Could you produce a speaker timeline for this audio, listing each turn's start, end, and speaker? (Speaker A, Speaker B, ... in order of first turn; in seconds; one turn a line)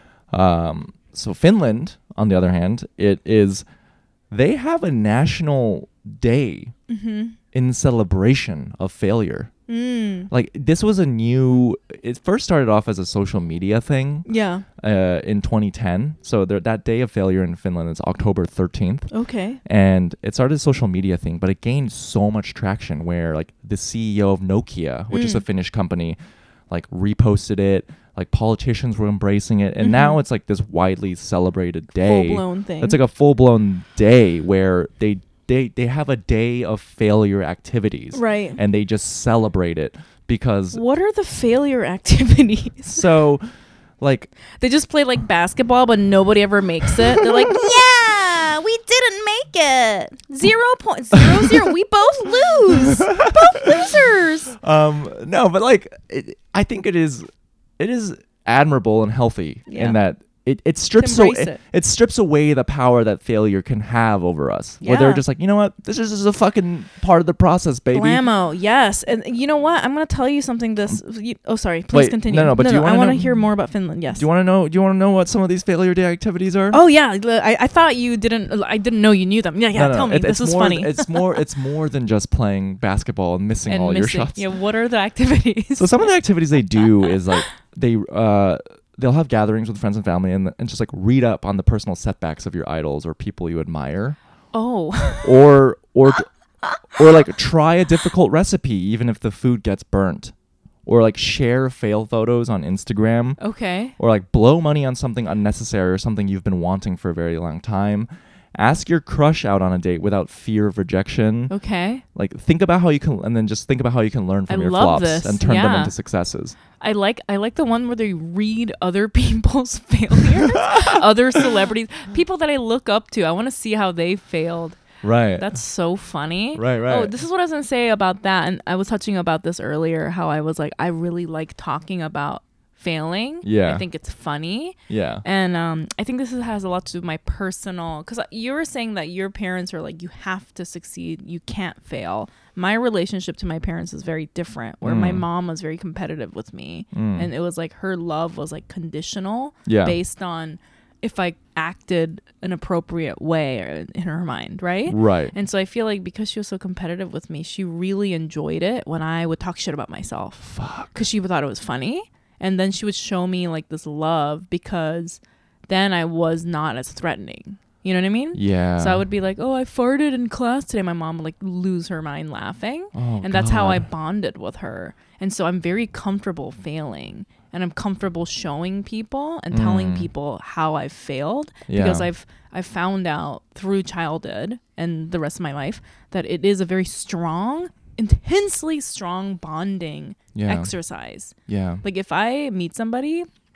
Speaker A: 0.3-3.6
Speaker A: 4.3-6.7
Speaker B: 6.9-7.4
Speaker A: 7.5-9.5
Speaker B: 9.7-10.3
Speaker A: 10.3-14.3
Speaker B: 14.3-14.7
Speaker A: 14.8-19.1
Speaker B: 19.1-19.6
Speaker A: 19.6-26.2
Speaker B: 25.1-25.4
Speaker A: 26.7-40.8
Speaker B: 29.8-30.2
Speaker B: 32.0-33.0
Speaker B: 38.1-38.6
Speaker B: 40.7-43.1
Speaker A: 42.9-43.4
Speaker A: 44.0-44.3
Speaker B: 44.6-54.6
Speaker A: 51.2-51.6
Speaker A: 52.7-54.0
Speaker A: 54.6-57.3
Speaker A: 57.8-68.2
Speaker B: 59.7-60.0
Speaker B: 61.0-61.6
Speaker B: 64.8-65.2
Speaker B: 67.9-74.2
Speaker A: 71.9-73.4
Speaker A: 74.2-76.8
Speaker B: 76.7-81.4
Speaker A: 79.7-84.5
Speaker B: 83.7-86.1
Speaker A: 85.8-94.2
Speaker B: 94.5-95.5
Speaker A: 95.2-96.3
Speaker A: 96.9-100.3
Speaker A: 100.9-103.4
Speaker B: 103.4-103.9
Speaker A: 104.0-111.5
Speaker B: 111.5-112.0
Speaker A: 112.2-116.6
Speaker B: 114.5-115.9
Speaker B: 116.8-124.9
Speaker A: 120.5-121.0
Speaker A: 125.0-125.6
Speaker B: 125.4-193.3
Speaker A: 126.5-127.1
Speaker A: 133.4-133.8
Speaker A: 134.9-135.2
Speaker A: 144.8-145.2
Speaker A: 146.9-147.3
Speaker A: 149.7-150.0
Speaker A: 154.9-155.3
Speaker A: 160.5-161.0
Speaker A: 168.3-169.0
Speaker A: 172.9-173.9
Speaker A: 179.5-180.1
Speaker A: 181.7-182.1
Speaker A: 190.3-190.7
Speaker A: 191.5-191.8